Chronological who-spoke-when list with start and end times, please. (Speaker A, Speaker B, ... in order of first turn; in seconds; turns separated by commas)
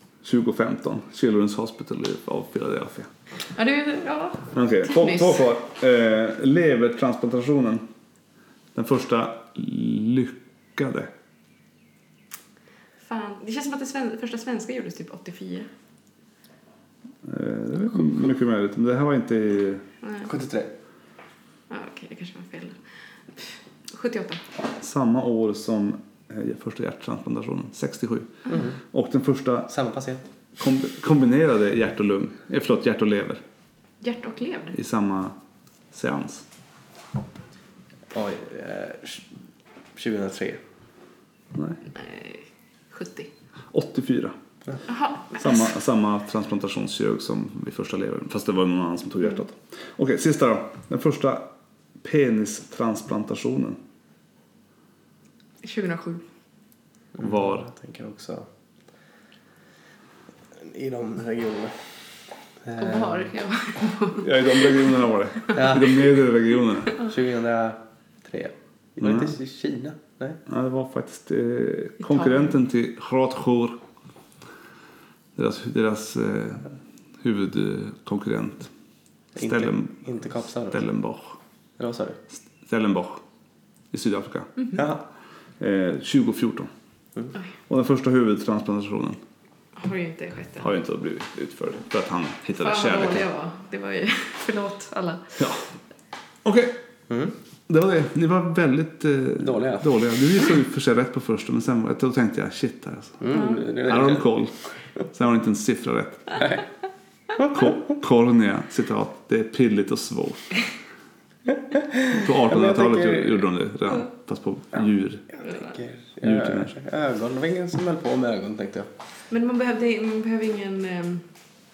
Speaker A: 0.2-3.1, Speaker B: 3.5-5.4, Speaker A: 4.5-7.8, Speaker A: 8.8-11.1, Speaker B: 13.0-15.7, Speaker A: 17.2-19.9, Speaker B: 20.0-20.3, Speaker C: 20.2-20.7, Speaker B: 21.7-22.8, Speaker B: 23.4-24.4, Speaker A: 24.8-28.3, Speaker C: 28.5-28.8, Speaker A: 28.9-29.7, Speaker C: 29.7-30.3, Speaker A: 30.6-33.4, Speaker B: 34.0-34.8, Speaker A: 34.7-35.4, Speaker A: 35.9-36.5, Speaker C: 38.1-39.3, Speaker C: 40.0-40.6, Speaker A: 41.5-41.8, Speaker B: 41.9-43.3, Speaker A: 43.7-44.4, Speaker B: 44.9-45.7, Speaker A: 45.4-51.5, Speaker A: 52.0-53.8, Speaker B: 55.6-56.2, Speaker C: 57.1-58.5, Speaker A: 57.2-57.7, Speaker C: 60.5-61.8, Speaker C: 62.6-63.3, Speaker B: 62.8-64.9, Speaker A: 64.2-67.0, Speaker C: 65.5-66.0, Speaker C: 67.0-70.4, Speaker A: 69.0-69.3, Speaker A: 70.5-73.8, Speaker B: 72.1-72.5, Speaker A: 75.4-76.7, Speaker A: 77.2-78.7, Speaker C: 79.4-80.8, Speaker A: 79.4-80.1, Speaker A: 80.7-81.4, Speaker C: 81.8-82.2, Speaker A: 82.7-83.2, Speaker A: 83.9-84.5, Speaker C: 84.8-85.0, Speaker A: 85.6-86.7, Speaker A: 87.7-89.2, Speaker B: 89.8-90.7, Speaker A: 90.6-93.3, Speaker B: 92.6-95.3, Speaker A: 95.4-95.7, Speaker A: 96.5-96.8, Speaker C: 97.1-97.3, Speaker A: 97.7-104.6, Speaker C: 99.4-99.9, Speaker C: 103.2-104.3, Speaker B: 103.3-103.7, Speaker A: 105.1-106.5, Speaker A: 107.4-110.6, Speaker C: 111.6-113.4, Speaker A: 112.1-115.3, Speaker C: 115.4-118.9, Speaker B: 115.4-115.8, Speaker A: 116.2-116.8, Speaker B: 119.3-121.2